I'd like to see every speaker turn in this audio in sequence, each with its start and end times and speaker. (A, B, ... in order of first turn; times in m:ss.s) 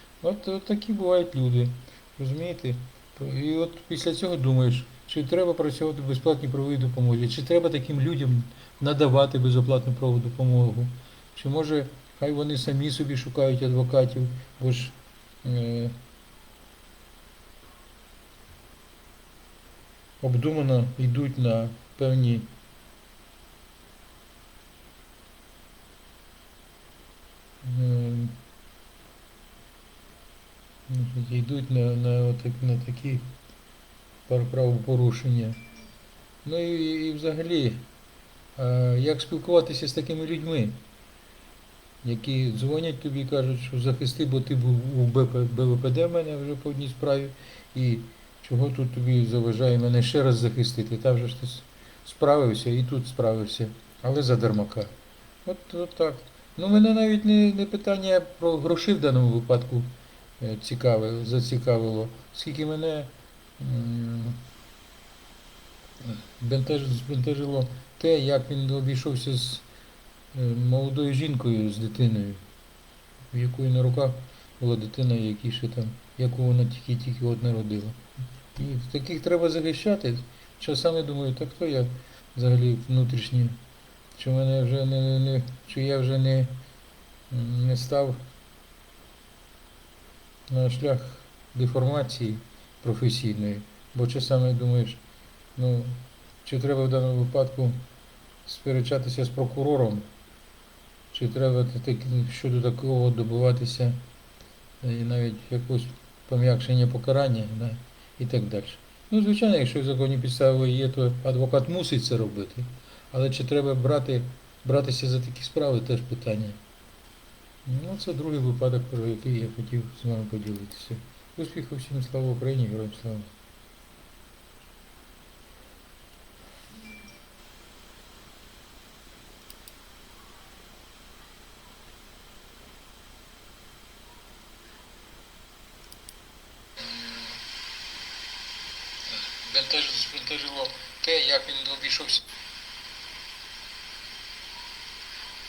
0:00.2-0:16.0 A
0:20.2-0:22.5 A
0:27.6-0:28.4 A
0:30.9-0:33.3 A
0:34.3-0:35.6 A
0:36.4-0:37.8 A
0:38.6-0:40.8 A
0:42.0-0:54.9 A
0:55.4-1:04.4 A
1:06.0-1:09.7 A
1:10.3-1:12.4 A
1:13.3-1:18.0 A
1:18.6-1:23.6 A
1:24.2-1:26.6 A
1:27.3-1:28.2 A
1:30.5-1:35.0 A
1:35.6-1:37.8 A
1:38.5-1:40.1 A
1:41.1-1:44.0 A
1:44.8-1:56.6 A
1:57.6-2:03.3 A
2:16.8-2:17.4 A
2:19.1-2:22.3 A